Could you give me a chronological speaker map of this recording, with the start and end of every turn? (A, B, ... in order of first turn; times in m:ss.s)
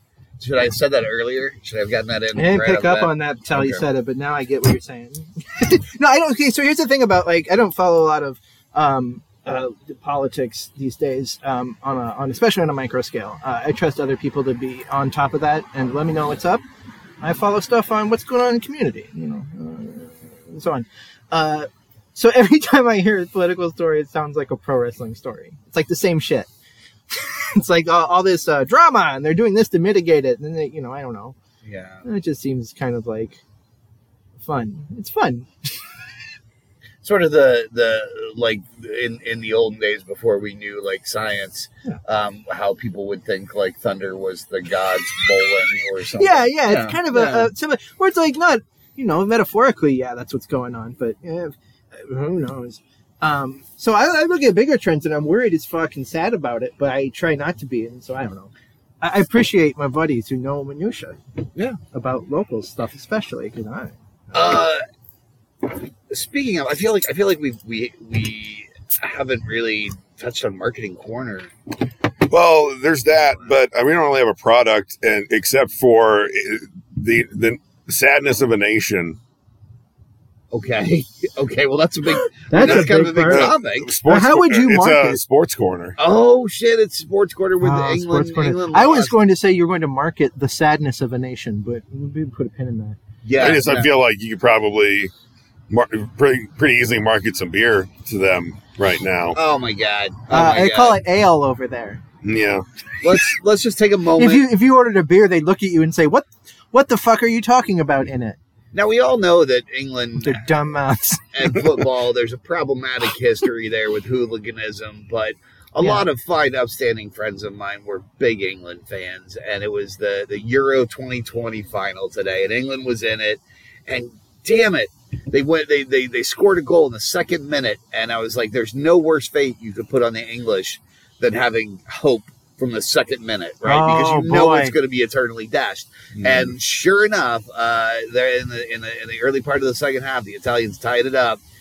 0:00.4-0:03.8 A
0:02.3-0:16.6 B
0:17.2-0:26.5 B
0:27.1-0:31.4 B
0:31.6-0:32.0 A
0:32.0-0:33.4 B
0:34.4-0:35.5 B
0:37.0-0:47.5 A
0:46.2-1:01.2 B
1:01.9-1:04.6 B
1:04.3-1:04.8 A
1:06.1-1:11.5 A
1:12.3-1:19.2 C
1:20.5-1:23.9 A
1:22.5-1:23.5 B
1:22.6-1:26.0 C
1:24.0-1:25.2 B
1:26.0-1:29.1 A
1:27.6-1:33.0 B
1:33.2-1:33.9 A
1:33.4-1:35.1 C
1:35.7-1:39.4 C
1:39.3-1:41.0 A
1:40.3-1:42.0 B
1:42.2-1:42.6 C
1:43.0-1:44.4 A
1:44.2-1:48.4 B
1:48.7-1:50.4 A
1:50.2-1:51.3 B
1:51.3-2:21.4 A
1:55.8-1:56.0 B
2:13.6-2:14.7 B